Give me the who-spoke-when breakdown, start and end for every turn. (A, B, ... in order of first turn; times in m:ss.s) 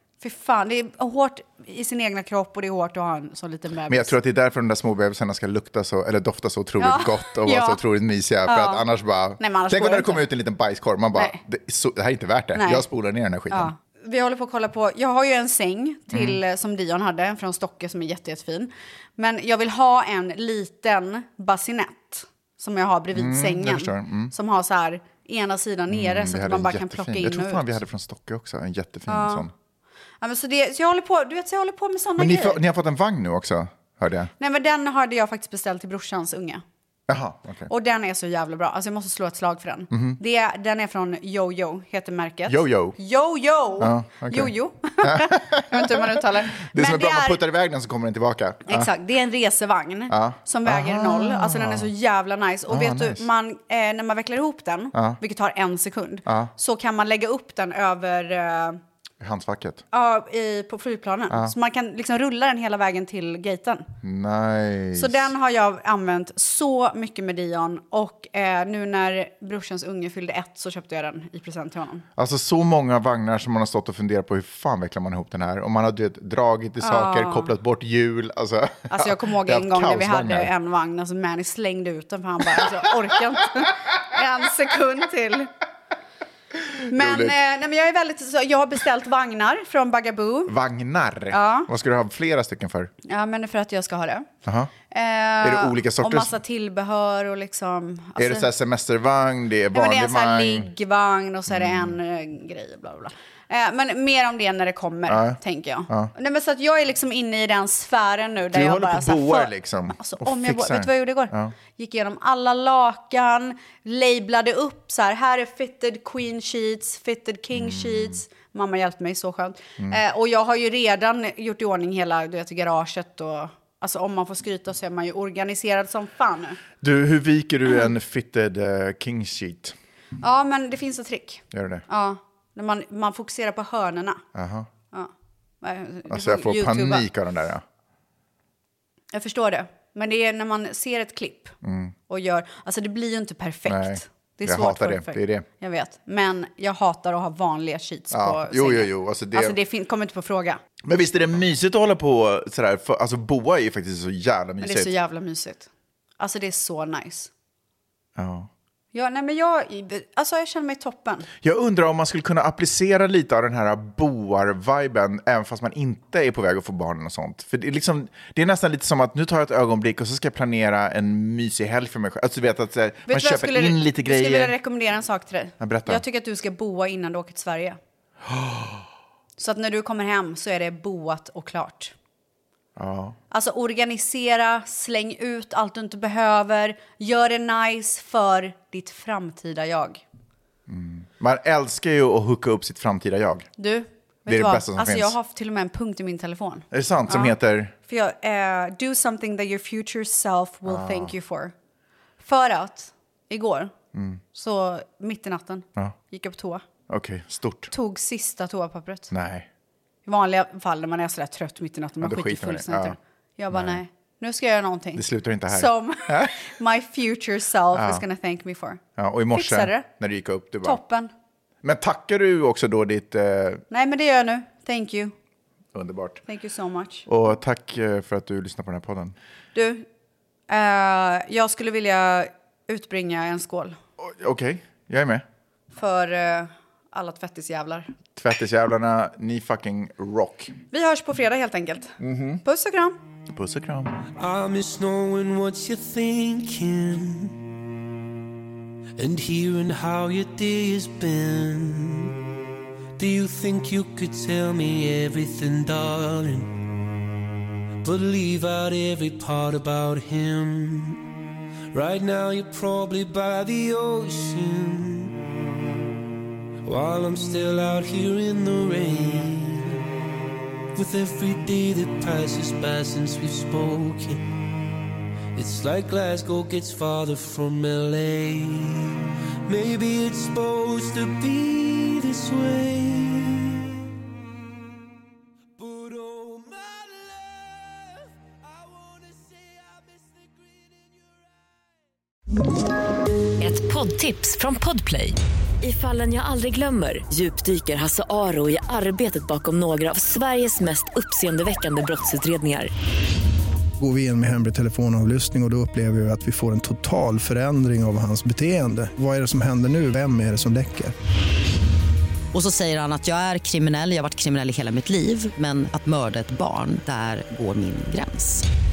0:00.2-0:04.2 A
0:03.9-0:13.7 B
0:06.8-0:07.8 A
0:08.5-0:08.8 A
0:09.4-0:10.3 A
0:11.1-0:11.4 A
0:12.5-0:12.8 A
0:13.5-0:27.8 A
0:16.1-0:16.4 B
0:23.1-0:24.3 B
0:25.9-0:29.5 B
0:29.1-0:29.5 A
0:30.2-0:32.6 A
0:32.2-0:34.3 B
0:34.4-0:36.6 A
0:37.1-0:37.7 B
0:37.7-0:47.4 A
0:39.9-0:40.2 B
0:42.5-0:43.0 B
0:43.8-0:48.9 B
0:48.7-0:58.8 A
0:50.1-0:51.9 B
0:52.7-0:53.2 B
0:54.9-0:55.2 B
0:56.3-0:56.5 B
0:59.2-0:59.8 B
0:59.9-1:03.9 A
1:04.0-1:05.3 B
1:05.0-1:12.1 A
1:12.2-1:20.5 B
1:16.8-1:17.5 A
1:18.9-1:25.5 A
1:26.8-1:27.4 B
1:26.9-1:30.6 A
1:30.5-1:32.9 B
1:31.3-1:31.7 A
1:33.0-1:34.3 A
1:34.4-1:34.7 B
1:34.9-1:38.5 A
1:35.4-1:36.4 B
1:38.2-1:40.7 B
1:39.7-2:06.6 A
1:41.5-1:42.0 B
1:45.1-1:46.1 B
1:48.5-1:51.6 B
1:57.6-1:58.2 B
2:06.8-2:09.8 B
2:10.2-2:14.2 A
2:11.5-2:11.8 B
2:14.4-2:14.7 B
2:15.6-2:17.1 A
2:16.1-2:17.6 B
2:19.1-2:21.6 A
2:21.6-2:21.9 B
2:22.1-2:30.6 A
2:23.7-2:25.5 B
2:28.1-2:29.6 B
2:30.8-2:34.9 B
2:34.6-2:35.7 A
2:36.2-2:37.3 A
2:38.2-2:38.5 B
2:38.9-2:41.3 A
2:41.4-2:54.6 B
2:53.1-2:57.8 A
2:55.6-2:56.0 B
2:58.3-2:58.8 B
2:59.4-3:01.9 A
3:02.8-3:03.2 B
3:03.3-3:10.0 A
3:10.7-3:13.5 B
3:13.6-3:21.5 A
3:14.3-3:15.2 B
3:16.7-3:17.7 B
3:20.7-3:21.1 B
3:22.2-3:23.7 A
3:23.9-3:24.2 B
3:24.3-3:26.6 A
3:26.9-3:27.7 B
3:27.7-3:29.1 A
3:29.1-3:29.5 B
3:30.1-3:38.8 A
3:32.0-3:33.0 B
3:33.5-3:33.8 B
3:35.0-3:36.4 B
3:37.7-3:38.0 B
3:39.0-3:40.8 B
3:39.3-3:39.9 A
3:40.6-3:41.1 A
3:41.6-3:43.6 B
3:43.7-3:45.1 A
3:45.7-3:46.2 B
3:46.3-3:47.1 A
3:47.1-3:49.2 B
3:49.6-3:49.9 A
3:50.5-3:53.8 A
3:54.0-3:55.2 B
3:55.7-3:57.9 A
3:58.2-4:00.6 B
4:00.7-4:03.0 A
4:02.0-4:02.4 B
4:03.3-4:04.0 B
4:04.2-4:07.4 C
4:09.0-4:12.1 C
4:13.0-4:16.6 C
4:17.8-4:21.0 C
4:21.7-4:25.1 C
4:26.6-4:29.8 C
4:30.8-4:34.2 C
4:35.4-4:43.7 C
4:45.6-4:51.2 C
4:53.4-5:02.7 D
5:03.8-5:10.9 E
5:12.3-5:18.4 F